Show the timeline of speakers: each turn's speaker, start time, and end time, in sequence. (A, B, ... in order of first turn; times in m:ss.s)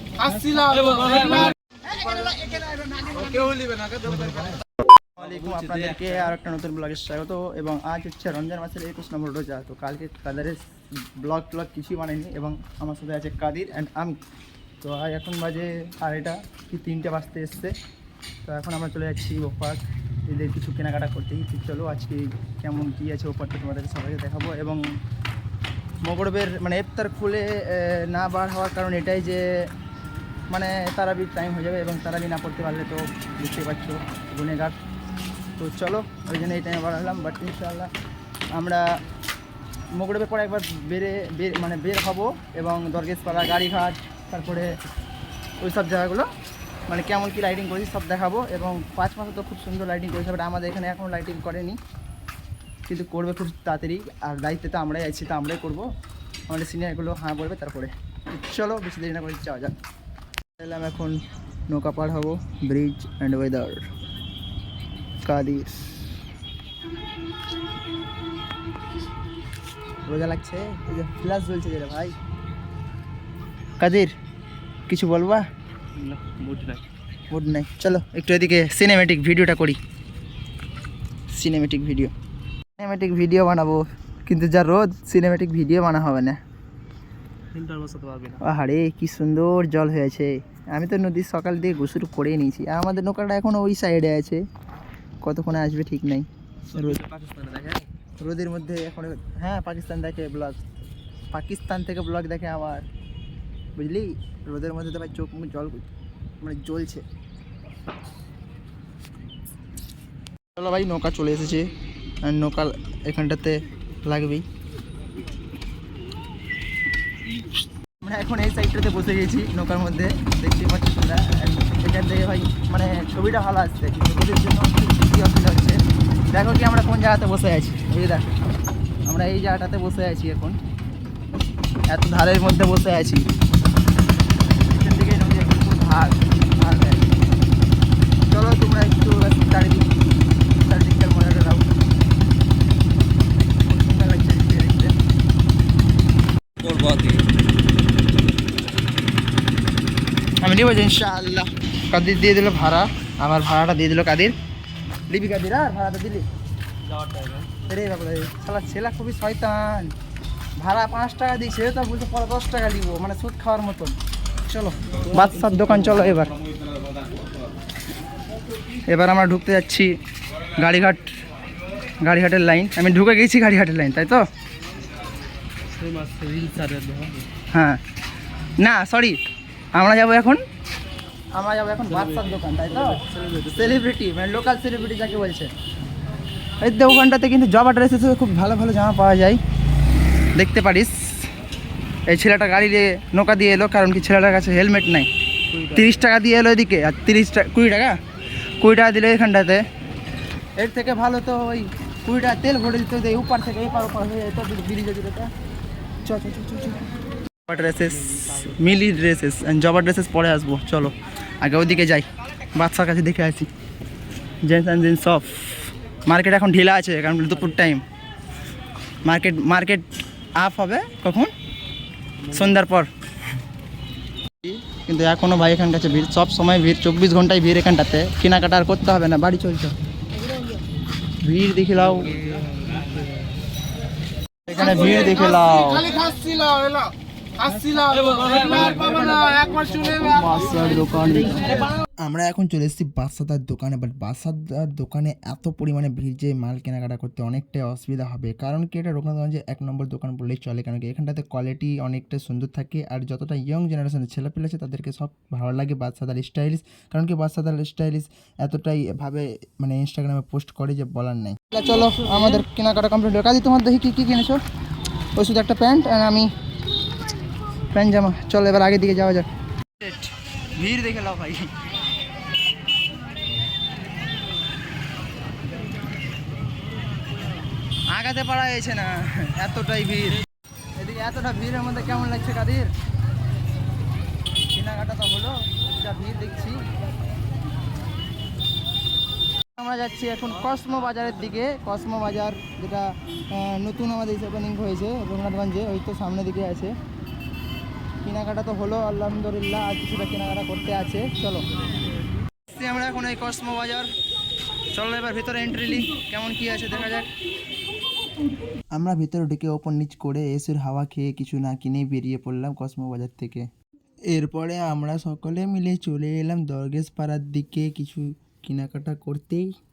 0:00.2-0:01.5 A
0:03.0-0:04.5 A
0:05.2-0:14.2 B
0:14.8-0:17.7 B
0:18.4-0:24.8 B
0:26.0-0:29.4 B
0:30.5-0:34.8 B
0:35.6-0:37.9 B
0:38.6-0:38.8 B
0:40.0-0:44.7 B
0:45.6-0:46.3 B
0:46.9-0:51.8 B
0:52.9-0:55.8 B
0:56.5-0:59.7 B
1:00.6-1:01.2 B
1:01.7-1:03.8 B
1:05.2-1:05.8 B
1:10.1-1:12.1 B
1:13.8-1:14.1 B
1:14.9-1:15.4 B
1:16.0-1:16.8 A
1:17.3-1:19.8 B
1:21.3-1:22.1 B
1:22.8-1:26.4 B
1:27.5-1:28.4 A
1:28.4-1:34.4 B
1:35.2-1:37.0 B
1:36.7-1:37.8 A
1:38.2-1:40.6 B
1:41.3-1:42.8 B
1:43.8-1:45.9 B
1:46.4-1:47.0 B
1:50.6-1:51.7 B
1:52.2-1:54.4 B
1:58.0-2:05.8 B
2:06.3-2:08.3 B
2:09.1-2:10.6 B
2:11.9-2:13.2 B
2:14.6-2:17.1 B
2:18.3-2:21.8 B
2:23.5-2:24.9 B
2:26.6-2:27.2 A
2:30.4-2:34.3 B
2:35.1-2:36.2 B
2:36.9-2:37.5 A
2:37.6-2:39.9 B
2:40.6-2:46.4 B
2:45.4-2:45.9 A
2:48.9-2:49.9 B
2:50.6-2:51.1 B
2:52.0-2:54.2 B
2:55.7-2:57.3 A
2:57.5-2:57.8 B
2:58.6-2:59.2 B
2:59.8-3:00.4 B
3:01.3-3:05.5 B
3:01.9-3:02.2 A
3:02.8-3:03.7 A
3:06.6-3:09.4 B
3:10.4-3:11.3 B
3:12.1-3:15.1 B
3:15.5-3:15.8 A
3:15.7-3:18.0 B
3:18.6-3:19.6 B
3:20.6-3:25.3 B
3:26.0-3:26.9 B
3:27.4-3:33.5 B
3:28.1-3:28.4 A
3:34.5-3:37.8 B
3:39.1-3:39.8 B
3:40.4-3:41.3 B
3:42.3-3:42.9 B
3:44.4-3:49.7 B
3:51.2-3:52.1 B
3:51.9-3:53.3 A
3:54.5-3:56.1 B
3:56.1-3:56.8 A
3:57.4-3:59.9 A
3:58.4-4:24.4 B
4:25.2-4:26.3 B
4:27.7-4:29.3 B
4:29.8-4:31.5 B
4:37.9-4:40.2 B
4:40.8-4:42.7 B
4:44.5-4:46.6 B
4:49.6-4:56.7 B
4:58.0-5:01.4 B
5:02.5-5:03.9 B
5:04.7-5:07.1 B
5:08.8-5:13.5 B
5:14.1-5:19.5 B